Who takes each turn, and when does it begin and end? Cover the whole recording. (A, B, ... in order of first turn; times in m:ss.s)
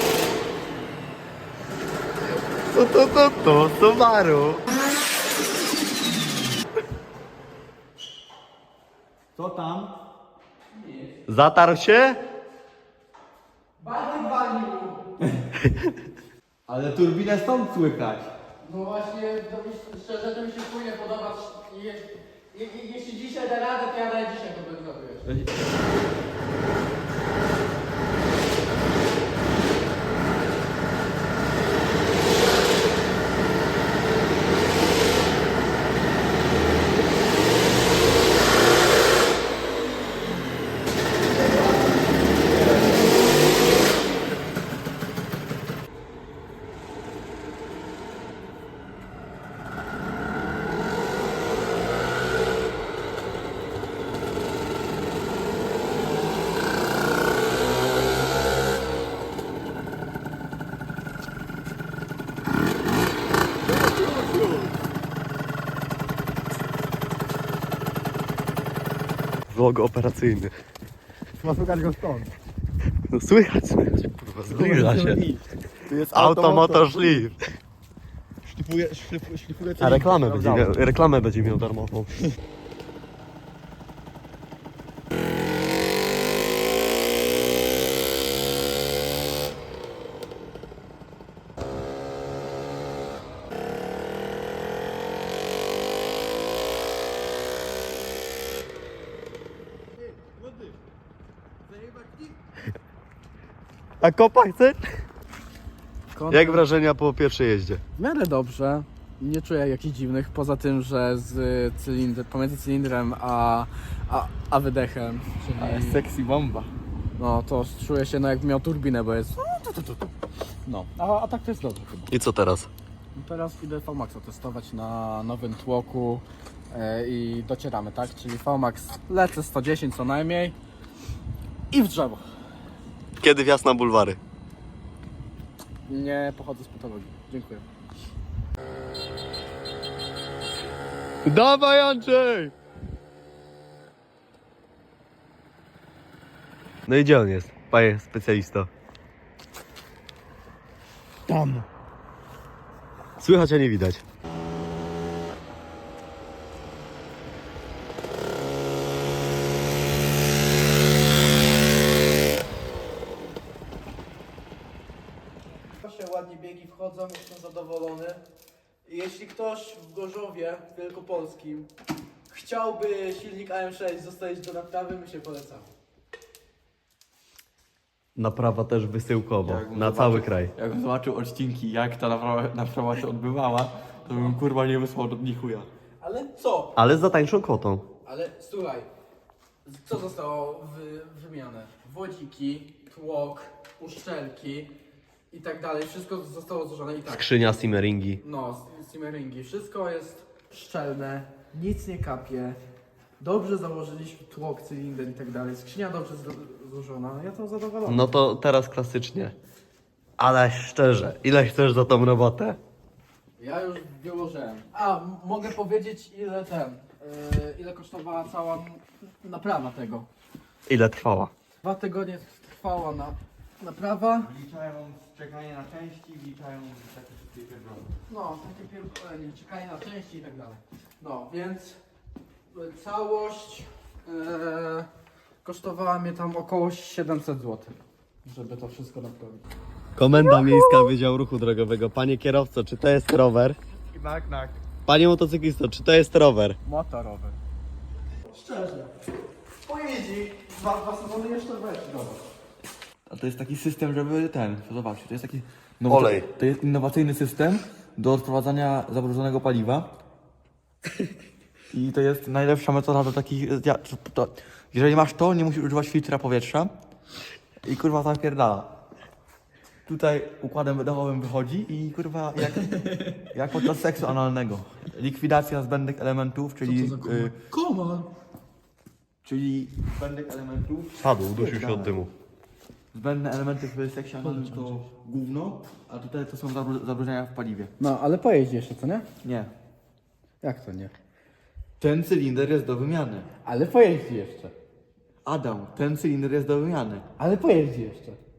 0:02.7-0:04.6 A
0:09.4-0:09.9 B
0:10.8-0:11.1 C
0:11.3-0:12.2 A
0:13.8-0:15.0 C
0:16.7-0:18.3 B
0:18.6-0:25.3 C
1:09.5-1:10.5 A
1:11.4-1:12.3 B
1:13.1-1:15.2 A
1:14.5-1:17.3 B
1:16.1-1:17.4 A
1:18.4-1:21.0 B
1:19.8-1:22.2 A
1:40.2-1:40.7 B
1:41.8-1:42.3 B
1:44.0-1:44.8 A
1:46.1-1:46.6 C
1:46.3-1:47.8 A
1:48.0-1:56.0 C
1:55.6-1:56.7 B
1:57.2-2:00.1 C
2:00.7-2:02.1 C
2:02.1-2:02.7 A
2:03.2-2:10.6 C
2:11.7-2:12.2 C
2:13.2-2:14.2 A
2:15.9-2:17.7 C
2:21.2-2:22.5 A
2:26.9-2:28.7 A
2:31.3-2:31.7 A
2:33.2-2:34.0 A
2:45.7-2:48.2 C
2:48.8-2:51.7 C
2:52.3-2:55.7 C
2:58.2-3:00.5 A
2:59.4-3:05.7 B
3:04.1-3:04.4 C
3:06.0-3:06.8 C
3:06.8-3:07.8 A
3:08.0-3:08.9 C
3:09.6-3:14.7 C
3:15.3-3:17.5 C
3:17.1-3:18.2 A
3:18.2-3:22.6 C
3:23.2-3:28.2 C
3:27.8-3:29.4 A
3:30.2-3:32.6 A
3:33.4-3:40.1 C
3:40.7-3:41.3 A
3:41.6-3:44.3 C
3:44.2-3:48.0 B
3:48.1-3:51.8 C
3:52.5-3:54.9 C
3:55.4-3:59.4 C
4:00.0-4:03.6 A
4:03.8-4:04.6 B
4:04.8-4:06.6 A
4:06.6-4:07.4 C
4:08.3-4:08.9 C
4:09.6-4:12.2 C
4:13.1-4:19.9 B
4:15.9-4:16.3 A
4:21.7-4:26.7 B
4:27.6-4:28.7 B
4:29.9-4:37.3 B
4:32.8-4:33.2 C
4:36.6-4:38.1 C
4:39.2-4:42.0 B
4:41.0-4:42.1 A
4:42.9-4:47.7 B
4:44.2-4:44.8 C
4:47.8-4:49.1 C
4:49.2-4:49.5 B
4:50.4-4:50.9 C
4:51.8-4:53.3 B
4:53.4-4:54.5 C
4:55.2-4:57.0 B
4:57.2-4:58.2 C